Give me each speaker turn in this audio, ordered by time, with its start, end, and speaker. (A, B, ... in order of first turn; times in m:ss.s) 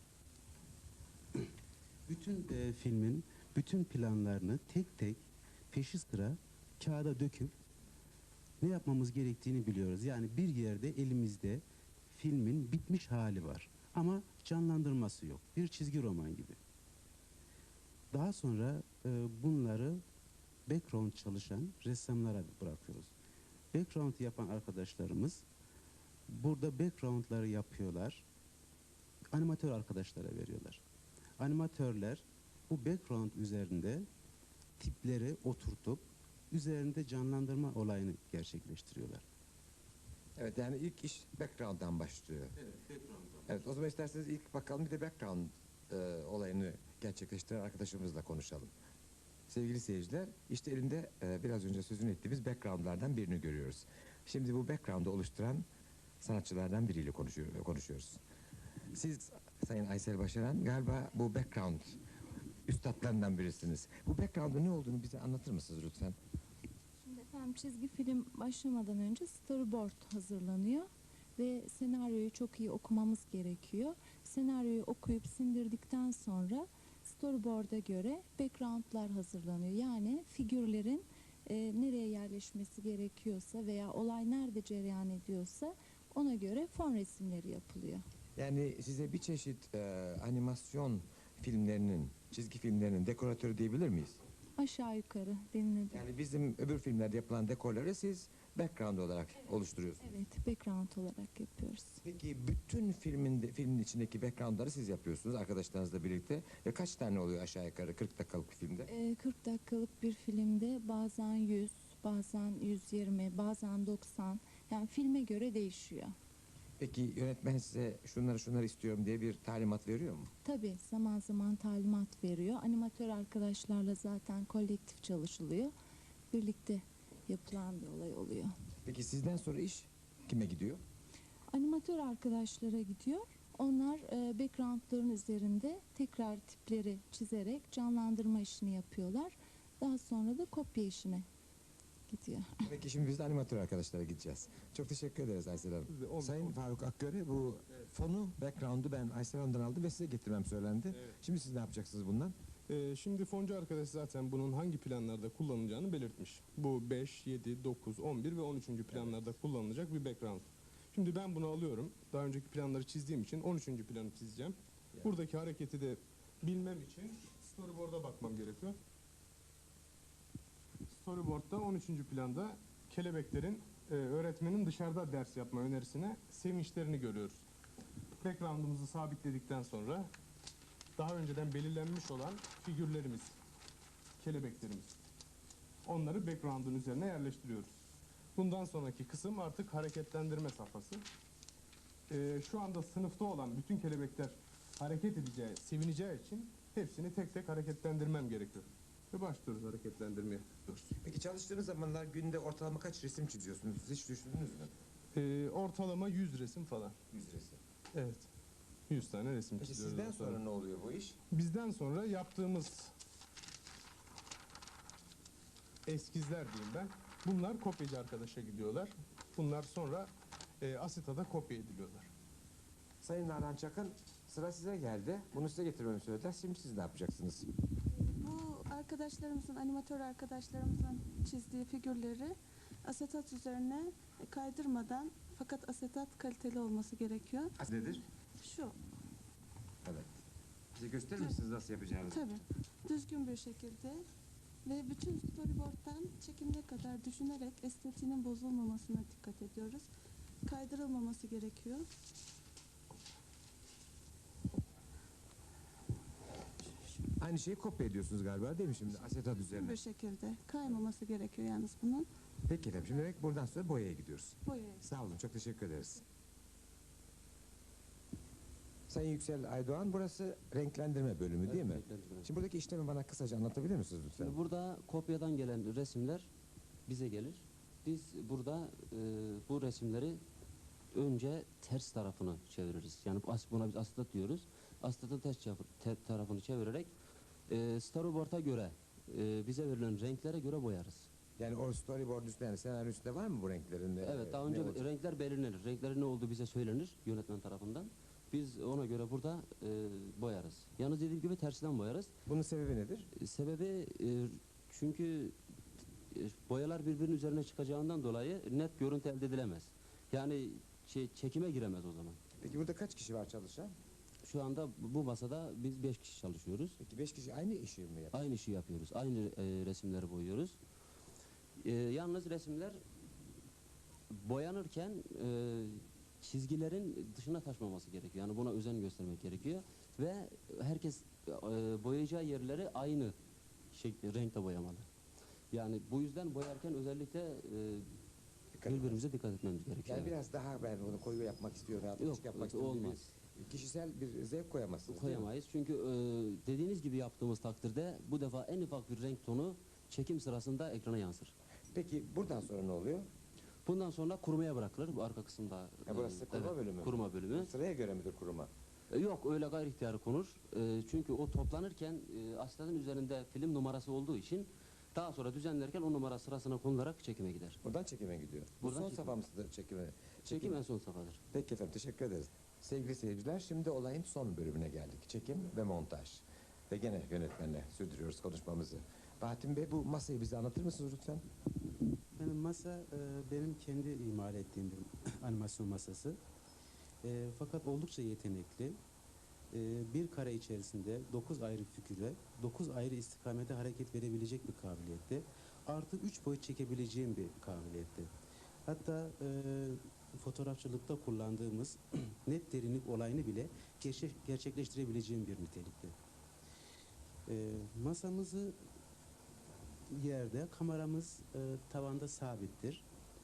0:02.1-0:07.5 A
0:08.6-0:16.6 A
0:18.1-0:20.0 A
0:20.7-0:23.1 A
0:23.7-0:25.4 A
0:26.3-0:28.2 A
0:29.3-0:30.8 A
0:31.4-0:34.1 A
0:34.8-0:39.2 A
0:40.4-0:42.5 B
0:43.5-0:48.7 B
0:49.5-0:55.6 B
0:56.2-0:58.2 B
0:58.9-1:02.0 B
1:02.7-1:06.1 B
1:07.0-1:10.8 C
1:11.4-1:28.0 C
1:28.4-1:34.2 B
1:34.6-1:36.1 C
1:35.9-1:40.1 B
1:40.0-1:42.0 C
1:42.0-1:48.9 B
1:48.9-1:56.1 C
1:56.8-2:00.3 B
2:00.4-2:05.7 C
2:06.3-2:08.5 C
2:08.8-2:10.8 B
2:11.5-2:21.2 C
2:22.1-2:22.5 C
2:22.6-2:32.3 B
2:25.9-2:26.6 D
2:32.7-2:48.8 D
2:38.9-2:39.3 B
2:50.9-2:57.4 D
2:58.2-3:00.0 D
3:01.0-3:03.3 D
3:04.2-3:04.9 D
3:05.9-3:07.7 D
3:08.4-3:11.0 D
3:12.1-3:20.9 D
3:21.0-3:24.7 B
3:25.1-3:26.9 D
3:27.1-3:27.6 B
3:27.9-3:28.2 D
3:28.9-3:30.4 D
3:29.6-3:31.2 B
3:31.3-3:32.9 D
3:35.9-3:40.1 D
3:40.6-3:42.1 D
3:43.0-3:47.4 B
3:48.2-3:57.5 E
3:57.6-3:58.0 B
3:58.4-3:58.8 E
3:59.8-4:00.1 B
4:00.8-4:02.2 B
4:01.2-4:01.4 E
4:02.1-4:04.0 E
4:04.6-4:09.9 E
4:10.4-4:11.9 E
4:17.2-4:19.8 B
4:19.3-4:22.1 E
4:22.4-4:26.0 B
4:24.4-4:24.8 E
4:28.9-4:34.4 B
4:31.4-4:32.3 F
4:34.2-4:36.3 F
4:36.9-4:40.2 F
4:40.9-4:46.9 F
4:47.5-4:51.1 F
4:51.4-4:54.9 B
4:54.0-5:02.1 F
5:02.2-5:03.1 B
5:03.2-5:05.4 F
5:06.1-5:12.2 F
5:12.4-5:13.7 B
5:14.2-5:16.8 F
5:16.8-5:18.2 B
5:18.1-5:20.6 F
5:21.6-5:22.8 F
5:24.1-5:33.1 F
5:33.7-5:34.9 F
5:35.5-5:37.9 F
5:38.6-5:39.0 B
5:38.6-5:40.1 F
5:39.8-5:45.3 B
5:42.0-5:43.1 F
5:44.9-5:51.3 F
5:51.7-5:53.0 B
5:53.6-5:57.5 F
5:55.9-5:58.5 B
5:58.9-6:07.6 F
6:07.6-6:10.6 B
6:08.6-6:09.1 F
6:10.3-6:11.2 F
6:11.3-6:21.2 B
6:22.2-6:26.2 A
6:27.0-6:28.8 A
6:29.5-6:38.1 A
6:38.7-6:45.9 A
6:47.3-6:48.6 A
6:49.9-6:52.8 A